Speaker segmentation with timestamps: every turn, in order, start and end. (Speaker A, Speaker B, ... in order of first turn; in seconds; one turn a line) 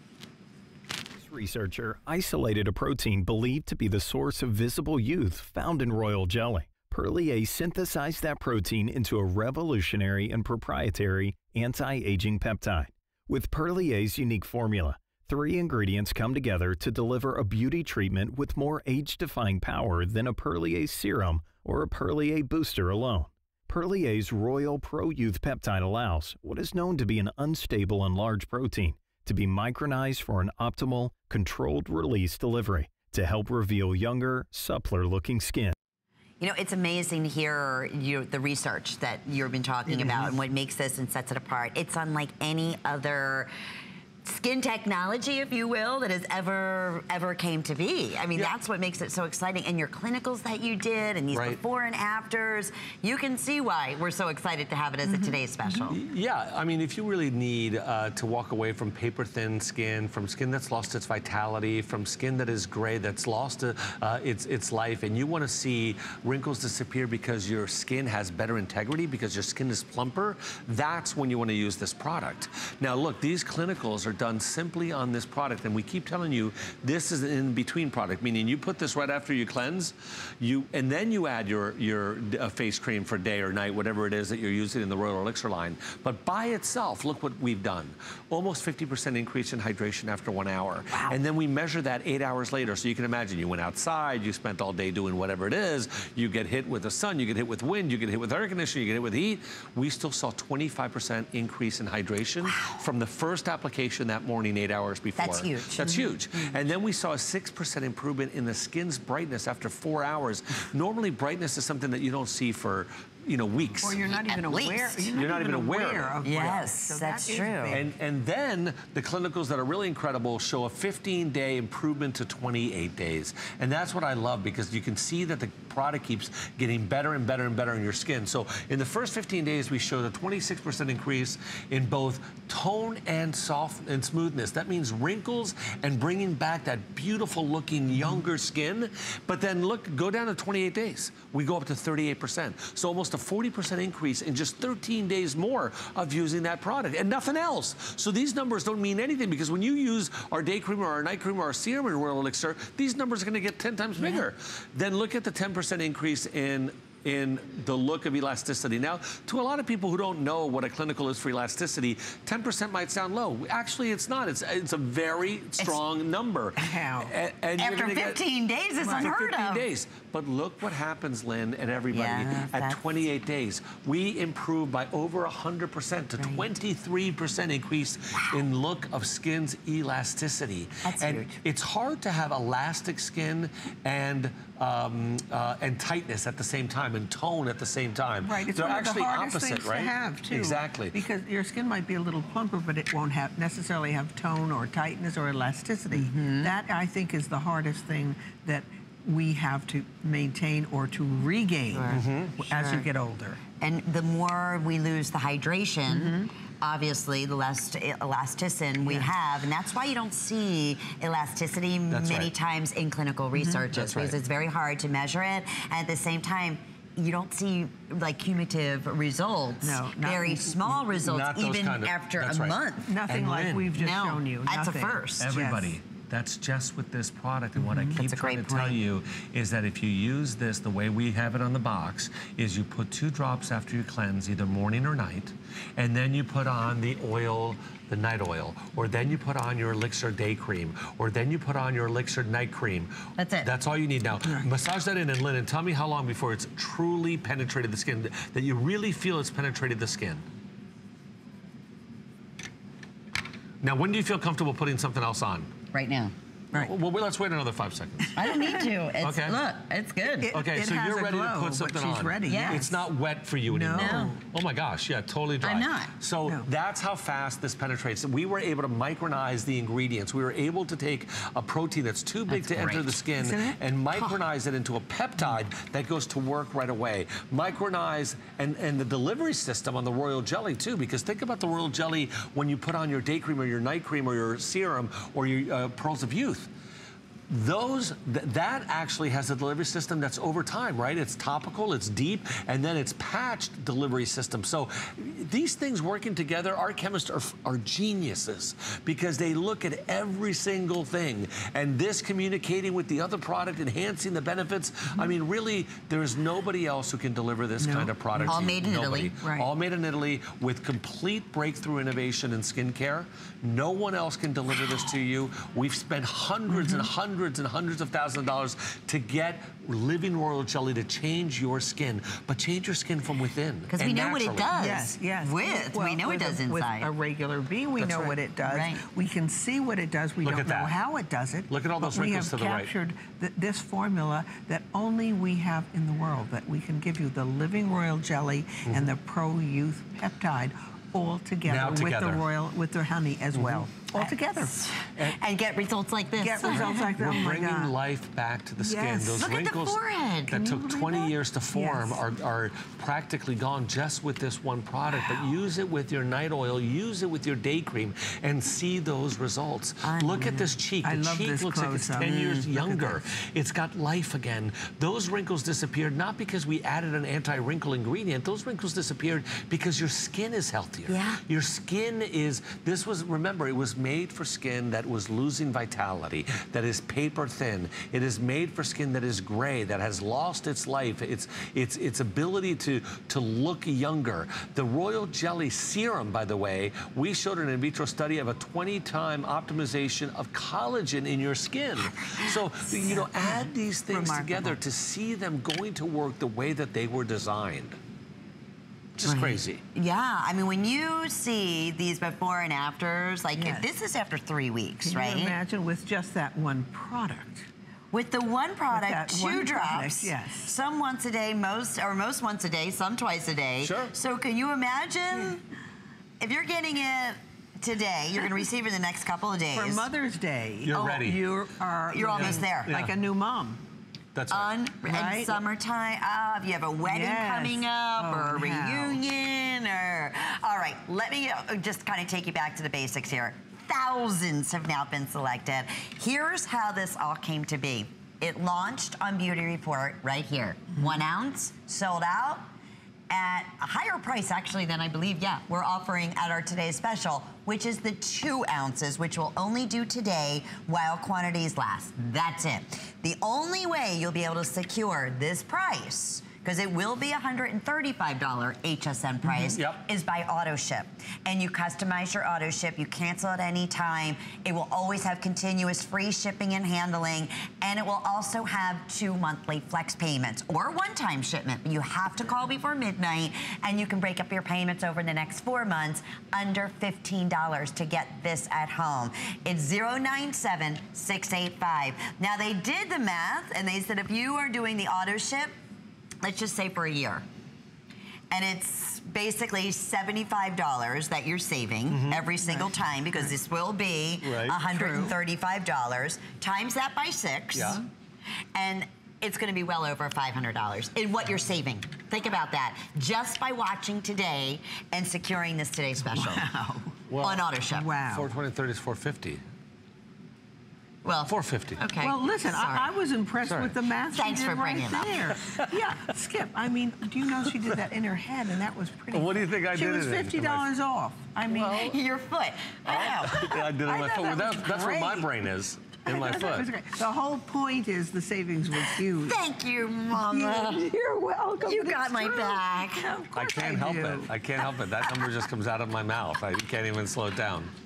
Speaker A: 1.1-35.7
Speaker B: 36.4-43.5
Speaker C: 39.9-40.1
Speaker B: 44.2-56.0
Speaker D: 51.3-51.6
Speaker D: 55.9-114.0
Speaker B: 105.2-106.0
Speaker C: 113.8-117.9
Speaker B: 114.1-115.1
Speaker D: 115.1-116.2
Speaker B: 116.2-117.8
Speaker D: 117.7-168.2
Speaker C: 166.6-167.1
Speaker B: 167.6-169.7
Speaker C: 168.8-169.1
Speaker D: 168.9-191.0
Speaker B: 171.9-172.9
Speaker B: 178.2-178.4
Speaker B: 180.8-181.4
Speaker C: 188.2-203.4
Speaker B: 195.9-196.5
Speaker B: 201.7-202.9
Speaker D: 201.9-202.4
Speaker B: 203.6-223.0
Speaker C: 205.9-206.3
Speaker C: 208.8-209.1
Speaker D: 211.9-212.3
Speaker C: 213.3-213.6
Speaker D: 213.7-214.2
Speaker C: 219.6-220.8
Speaker D: 220.9-223.7
Speaker C: 222.8-225.8
Speaker B: 223.7-225.3
Speaker D: 225.2-250.2
Speaker C: 227.6-228.0
Speaker B: 228.0-228.8
Speaker B: 243.2-243.5
Speaker C: 244.2-244.5
Speaker D: 253.6-255.5
Speaker B: 255.7-256.1
Speaker D: 256.5-258.2
Speaker B: 258.1-260.3
Speaker D: 259.0-259.4
Speaker C: 260.2-262.8
Speaker D: 260.3-286.5
Speaker B: 262.2-262.6
Speaker C: 263.4-264.2
Speaker B: 263.7-264.2
Speaker B: 265.4-265.9
Speaker B: 272.3-272.9
Speaker C: 273.2-273.6
Speaker D: 287.3-324.5
Speaker C: 307.6-308.4
Speaker B: 308.2-309.1
Speaker C: 309.2-309.5
Speaker C: 316.5-316.9
Speaker B: 323.7-326.9
Speaker C: 324.6-344.5
Speaker D: 327.8-328.1
Speaker B: 328.4-328.8
Speaker D: 330.2-330.8
Speaker D: 331.5-332.7
Speaker D: 341.5-342.2
Speaker D: 343.3-343.7
Speaker B: 343.9-347.4
Speaker C: 346.2-347.7
Speaker D: 346.4-397.8
Speaker C: 348.6-349.2
Speaker B: 349.2-350.4
Speaker C: 350.3-352.0
Speaker B: 359.8-360.5
Speaker C: 360.8-363.0
Speaker B: 362.0-362.4
Speaker B: 370.9-371.2
Speaker B: 392.0-392.4
Speaker C: 392.9-394.6
Speaker D: 398.9-399.6
Speaker B: 399.0-405.4
Speaker C: 403.4-403.7
Speaker C: 404.8-407.4
Speaker B: 407.9-415.4
Speaker C: 408.7-410.5
Speaker D: 413.6-413.9
Speaker B: 416.2-419.9
Speaker C: 419.5-423.6
Speaker D: 420.6-421.2
Speaker B: 420.7-421.1
Speaker B: 421.9-422.8
Speaker D: 422.1-422.9
Speaker D: 424.1-424.5
Speaker B: 424.3-442.4
Speaker C: 424.8-425.4
Speaker C: 426.8-429.0
Speaker B: 443.1-485.5
Speaker D: 459.6-459.9
Speaker B: 486.2-487.2
Speaker B: 488.3-497.8
Speaker D: 491.9-492.3
Speaker C: 492.4-492.7
Speaker D: 494.2-494.6
Speaker C: 494.7-495.1
Speaker D: 497.5-497.8
Speaker B: 498.5-507.9
Speaker C: 506.1-506.4
Speaker D: 507.1-507.4
Speaker C: 507.7-508.3
Speaker D: 508.1-509.4
Speaker B: 511.0-512.9
Speaker D: 511.3-511.8
Speaker C: 512.0-521.9
Speaker D: 513.4-513.7
Speaker B: 514.1-515.2
Speaker D: 515.3-515.8
Speaker D: 517.4-517.8
Speaker D: 519.1-520.7
Speaker D: 521.5-522.0
Speaker B: 521.8-523.7
Speaker D: 522.9-526.7
Speaker C: 523.8-525.3
Speaker C: 526.0-529.4
Speaker B: 528.9-530.9
Speaker C: 530.2-534.3
Speaker B: 531.6-533.1
Speaker D: 533.3-537.7